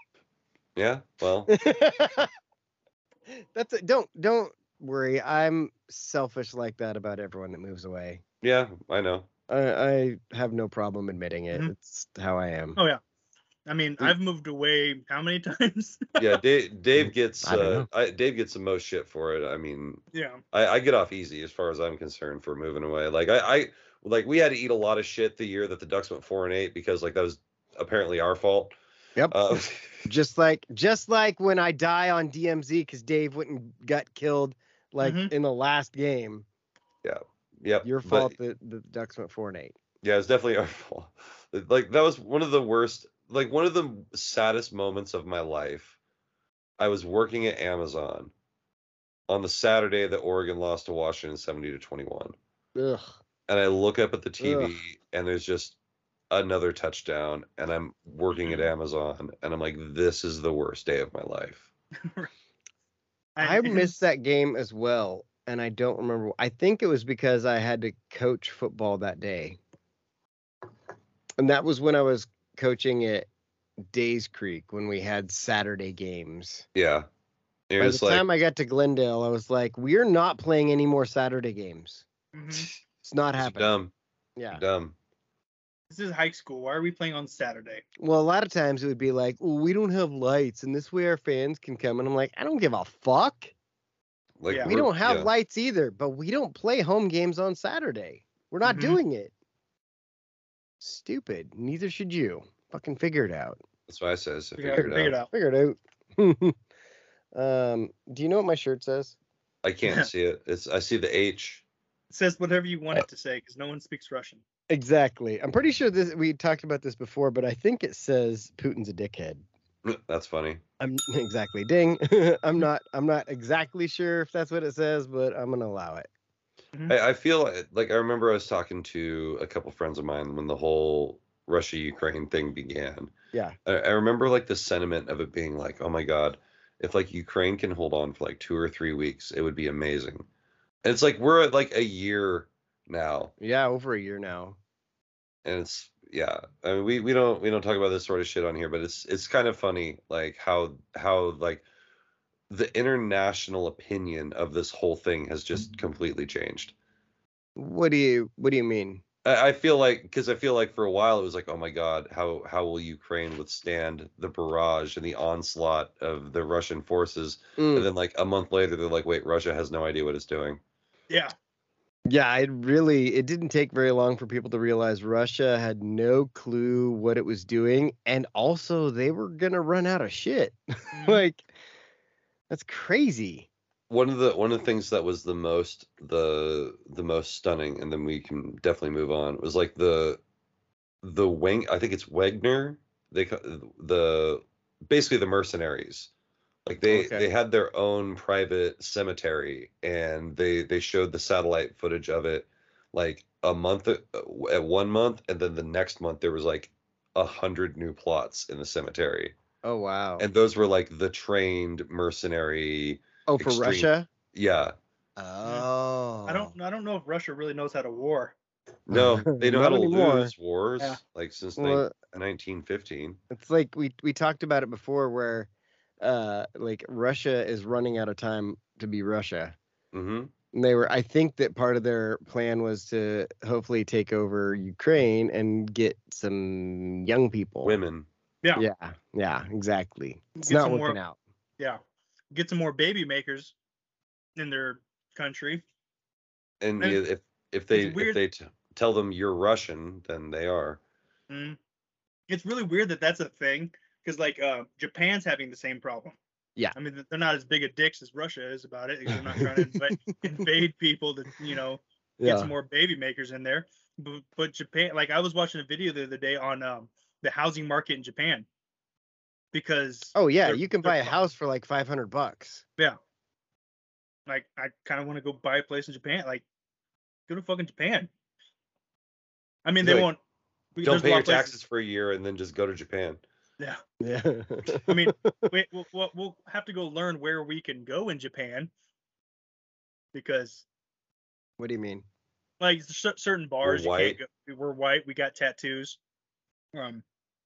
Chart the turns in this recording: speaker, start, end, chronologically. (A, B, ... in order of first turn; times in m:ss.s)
0:00.8-0:01.5 A
0:01.5-0:02.3 B
0:03.3-0:08.2 B
0:08.4-0:09.3 A
0:09.5-0:12.8 B
0:13.7-0:16.4 C
0:16.2-0:28.7 A
0:17.4-0:17.9 B
0:20.1-0:20.4 C
0:29.3-0:30.1 A
0:30.0-0:36.4 B
0:35.0-0:35.3 C
0:37.0-0:38.3 A
0:37.8-0:39.8 B
0:40.0-0:45.9 A
0:46.8-0:48.3 A
0:49.3-0:52.4 A
0:52.8-0:53.2 B
0:53.5-0:55.8 A
0:54.4-0:54.7 B
0:56.3-1:01.6 A
1:02.0-1:02.3 C
1:03.4-1:04.0 C
1:03.4-1:09.6 B
1:11.4-1:13.3 B
1:13.9-1:16.7 B
1:16.7-1:17.1 A
1:17.7-1:18.2 A
1:17.8-1:22.0 B
1:22.3-1:22.7 C
1:23.0-1:23.8 B
1:23.4-1:23.9 A
1:24.5-1:24.9 A
1:25.9-1:27.8 C
1:28.0-1:33.5 B
1:34.4-1:35.3 A
1:34.6-1:39.3 B
1:38.6-1:39.0 C
1:40.8-1:43.6 B
1:43.9-1:45.2 A
1:44.6-1:45.3 C
1:44.7-1:46.6 B
1:47.3-1:49.2 B
1:49.6-1:51.6 A
1:52.1-1:54.4 C
1:54.7-1:59.4 B
1:59.8-2:00.6 A
2:00.8-2:06.1 B
2:06.9-2:13.1 A
2:13.6-2:20.2 A
2:20.8-2:23.3 A
2:23.4-2:24.6 B
2:25.4-2:31.6 A
2:32.5-2:36.7 A
2:37.6-2:39.0 B
2:39.2-2:50.6 A
2:47.6-2:47.9 B
2:52.1-3:01.4 B
3:00.9-3:01.2 C
3:02.5-3:03.5 B
3:03.9-3:10.2 A
3:11.0-3:16.1 A
3:16.6-3:29.3 A
3:16.9-3:17.2 B
3:29.6-3:30.2 B
3:30.2-3:34.7 A
3:33.3-3:34.1 B
3:35.2-3:36.5 B
3:36.3-3:38.3 C
3:38.9-3:43.2 A
3:38.9-3:40.3 B
3:41.6-3:41.9 B
3:43.3-3:45.5 B
3:46.0-3:49.6 B
3:49.9-3:50.3 A
3:50.5-3:57.7 B
3:57.6-3:58.1 A
3:58.6-4:01.2 B
4:00.4-4:01.0 C
4:02.3-4:03.5 C
4:04.4-4:05.6 C
4:06.6-4:10.8 A
4:07.7-4:08.2 C
4:11.3-4:11.6 C
4:12.3-4:16.2 C
4:16.7-4:28.4 C
4:19.1-4:20.2 B
4:22.2-4:22.5 B
4:29.5-4:31.2 C
4:30.1-4:32.6 B
4:34.3-4:36.4 C
4:37.3-4:38.1 C
4:39.6-4:40.2 C
4:39.8-4:40.1 A
4:40.7-4:41.6 C
4:40.8-4:43.2 A
4:44.0-4:45.5 B
4:44.9-4:48.7 C
4:50.1-4:50.6 C
4:51.6-4:52.0 B
4:52.6-4:56.0 C
4:53.6-4:54.2 A
4:56.7-4:57.0 C